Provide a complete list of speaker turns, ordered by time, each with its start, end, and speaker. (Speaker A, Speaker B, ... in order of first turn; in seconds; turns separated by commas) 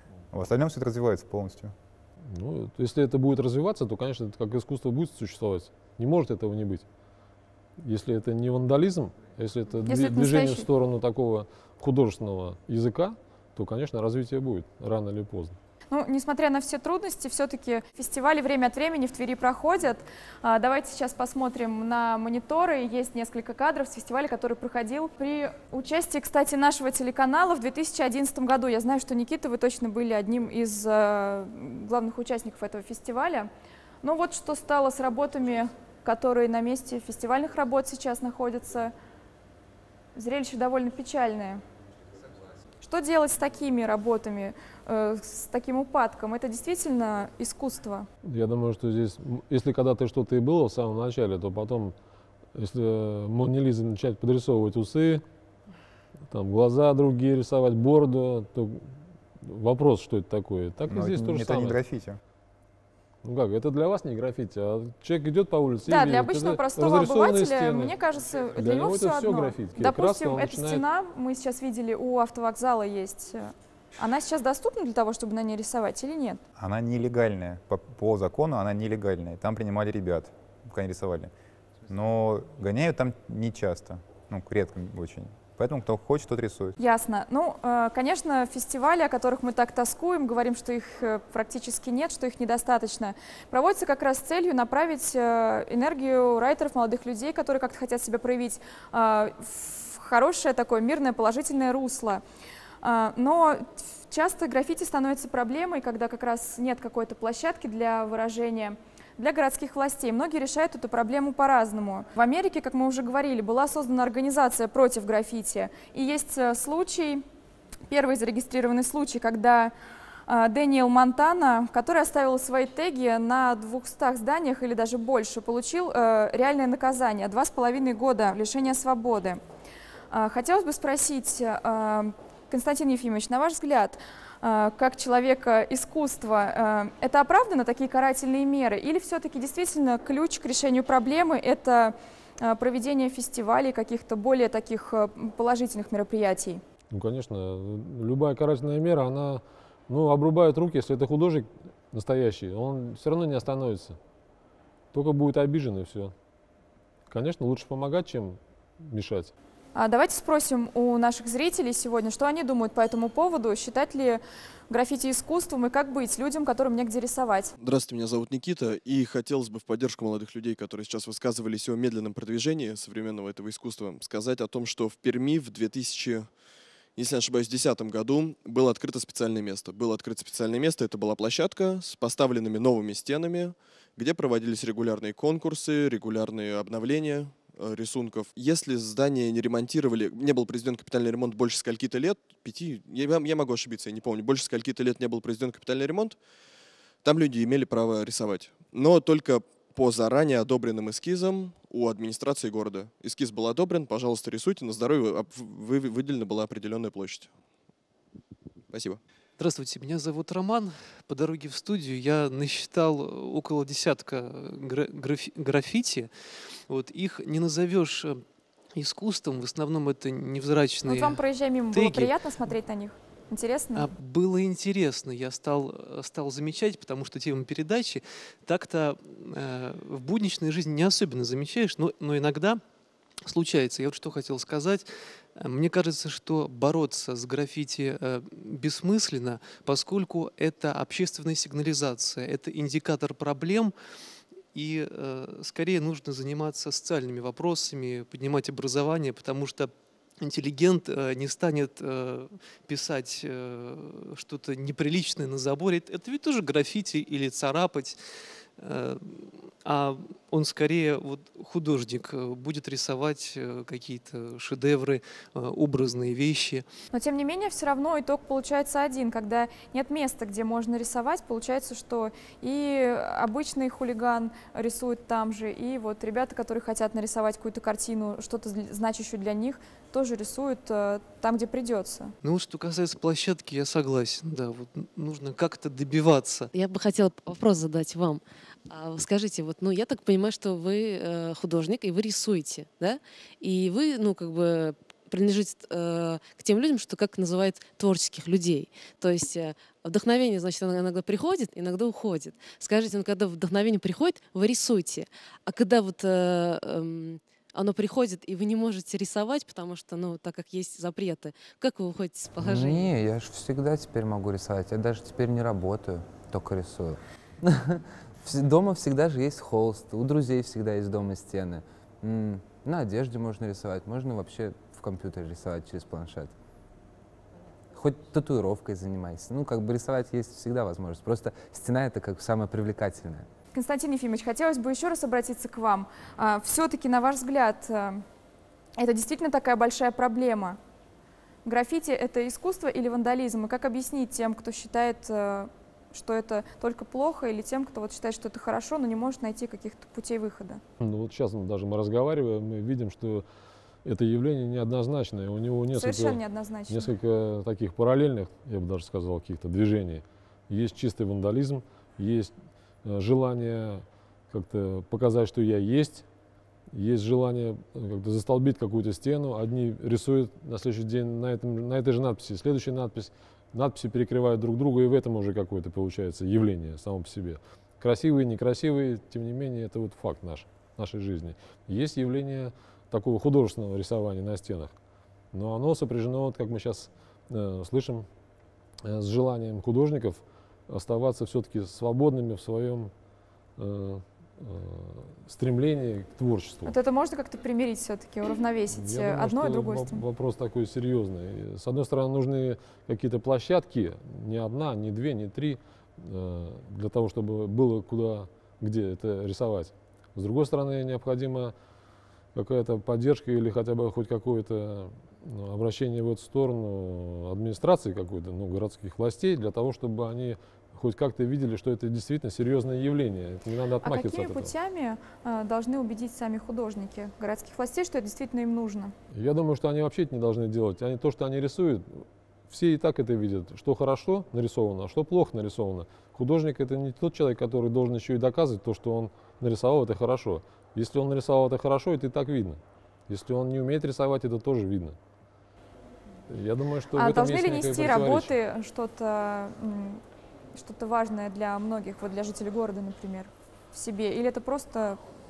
Speaker A: 0.3-1.7, Speaker B: 2.3-6.9, Speaker B: 7.8-15.6, Speaker C: 9.9-10.7, Speaker C: 15.9-33.5, Speaker C: 34.0-38.9, Speaker C: 40.2-41.6, Speaker C: 42.8-48.1, Speaker B: 48.2-52.0, Speaker B: 52.5-55.2, Speaker B: 56.3-61.8, Speaker A: 60.9-62.2, Speaker B: 63.2-70.8, Speaker C: 65.9-76.4, Speaker A: 76.6-81.3, Speaker A: 81.9-86.8, Speaker C: 86.8-102.2, Speaker C: 102.8-117.2, Speaker C: 117.9-119.7, Speaker C: 120.3-129.4, Speaker C: 130.1-146.6, Speaker B: 146.9-154.0, Speaker B: 154.9-156.1, Speaker B: 157.1-159.3, Speaker C: 159.8-167.5, Speaker D: 167.6-176.3, Speaker D: 177.0-196.2, Speaker D: 197.0-207.3, Speaker D: 208.7-209.0, Speaker E: 209.4-222.2, Speaker C: 220.8-223.9, Speaker E: 223.8-232.6, Speaker E: 233.2-243.7, Speaker E: 244.5-258.0, Speaker E: 258.6-266.7, Speaker C: 266.9-282.1, Speaker E: 282.2-286.5, Speaker F: 286.5-312.9, Speaker G: 312.4-326.3, Speaker G: 327.7-333.3, Speaker C: 333.5-338.0, Speaker C: 338.8-340.6, Speaker C: 341.4-350.6, Speaker B: 350.8-353.2, Speaker B: 353.8-362.3, Speaker C: 355.7-356.9, Speaker B: 362.8-366.1, Speaker B: 366.7-384.8, Speaker B: 385.3-388.1, Speaker B: 388.9-392.9, Speaker B: 393.6-396.8, Speaker C: 396.7-400.0, Speaker B: 398.7-411.5, Speaker B: 412.4-424.5, Speaker C: 423.8-428.9, Speaker B: 429.1-445.0, Speaker B: 446.3-448.3, Speaker C: 446.9-450.0, Speaker C: 450.5-455.0